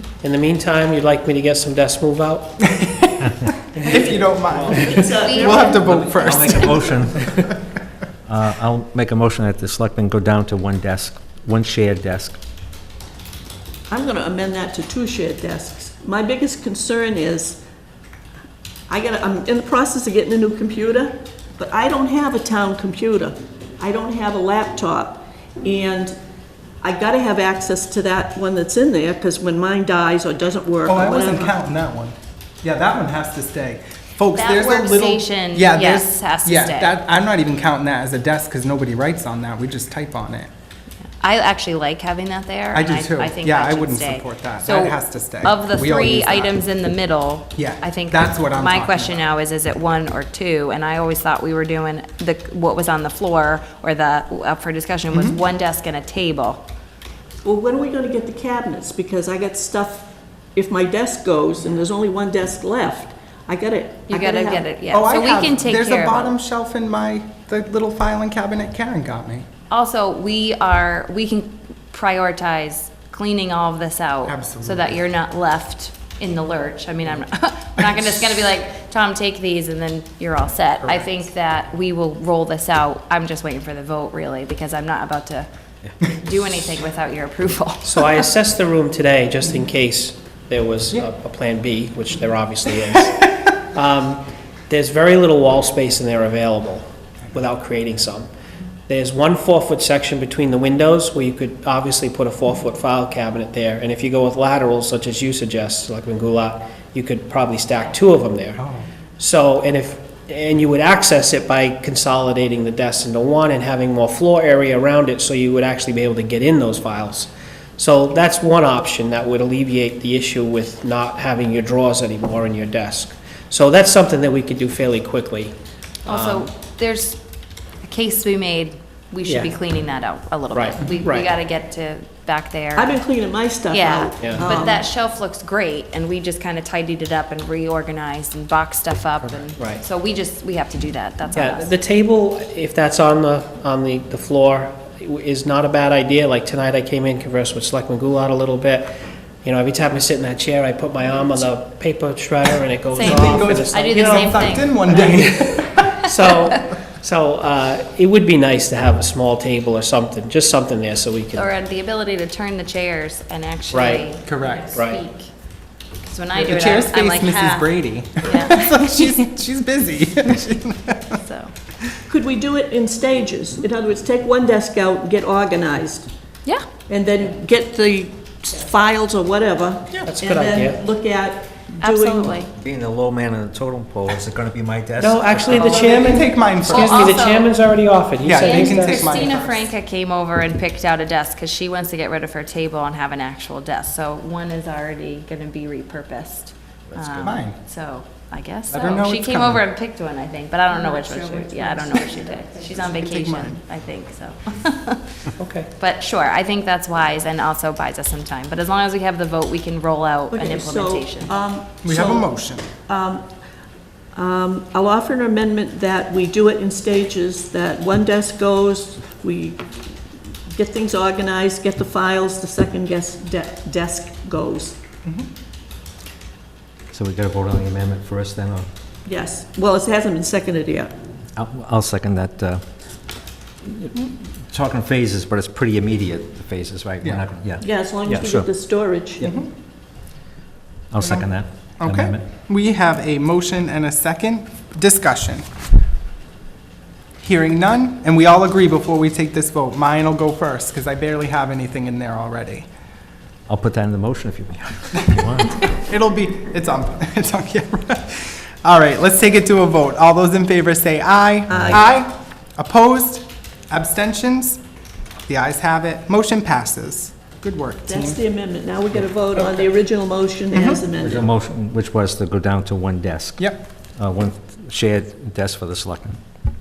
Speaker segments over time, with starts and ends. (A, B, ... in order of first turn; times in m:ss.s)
0:00.2-0:02.6 A
0:02.7-0:07.4 B
0:03.8-0:04.1 A
0:04.6-0:04.9 C
0:04.9-0:06.7 D
0:05.2-0:05.7 E
0:05.7-0:07.3 C
0:08.3-0:12.4 C
0:13.9-0:17.6 D
0:18.9-0:26.1 D
0:26.8-0:31.5 D
0:30.9-0:40.5 B
0:34.3-0:36.9 E
0:41.2-0:56.6 E
0:42.7-0:46.5 B
0:47.6-0:49.2 B
0:55.1-0:55.4 B
0:57.4-1:04.7 D
1:04.1-1:06.4 E
1:04.9-1:09.5 B
1:09.7-1:25.5 E
1:14.3-1:14.9 B
1:20.9-1:21.1 B
1:26.0-1:27.9 E
1:27.8-1:38.3 A
1:38.9-1:48.6 A
1:48.6-1:48.8 B
1:49.2-2:06.5 A
2:06.1-2:07.2 E
2:07.8-2:13.0 E
2:09.3-2:09.5 A
2:10.5-2:11.3 A
2:12.8-2:14.9 D
2:13.7-2:21.7 E
2:14.2-2:14.5 A
2:19.6-2:19.8 A
2:21.4-2:34.5 A
2:32.9-2:35.2 E
2:33.0-2:36.1 B
2:36.0-2:41.5 A
2:41.3-2:45.3 E
2:43.7-2:44.1 A
2:44.3-2:44.8 B
2:44.7-2:45.0 A
2:46.0-2:49.2 E
2:46.4-2:51.2 B
2:51.2-2:51.5 E
2:52.1-2:56.1 D
2:56.9-3:02.4 D
3:00.0-3:00.8 A
3:01.8-3:02.5 E
3:02.5-3:05.9 C
3:05.0-3:09.3 A
3:05.5-3:07.2 B
3:06.7-3:07.5 E
3:08.2-3:09.7 B
3:08.4-3:25.0 E
3:16.9-3:17.4 C
3:17.2-3:17.6 B
3:18.7-3:19.6 B
3:22.6-3:23.6 B
3:25.4-3:25.7 A
3:25.8-3:31.4 E
3:30.3-3:33.3 D
3:31.8-3:32.7 B
3:34.2-3:39.9 D
3:40.5-3:44.8 D
3:46.9-3:48.7 C
3:49.0-3:50.9 D
3:51.4-3:52.6 C
3:54.5-3:58.5 C
3:57.6-3:59.3 D
3:59.2-3:59.5 B
4:00.9-4:02.2 C
4:01.0-4:01.3 B
4:01.8-4:05.5 B
4:07.2-4:12.7 B
4:13.5-4:15.7 C
4:15.7-4:24.6 B
4:21.5-4:21.8 C
4:25.3-4:28.2 B
4:27.9-4:31.3 D
4:30.5-4:30.8 B
4:31.0-4:36.2 C
4:33.4-4:33.6 B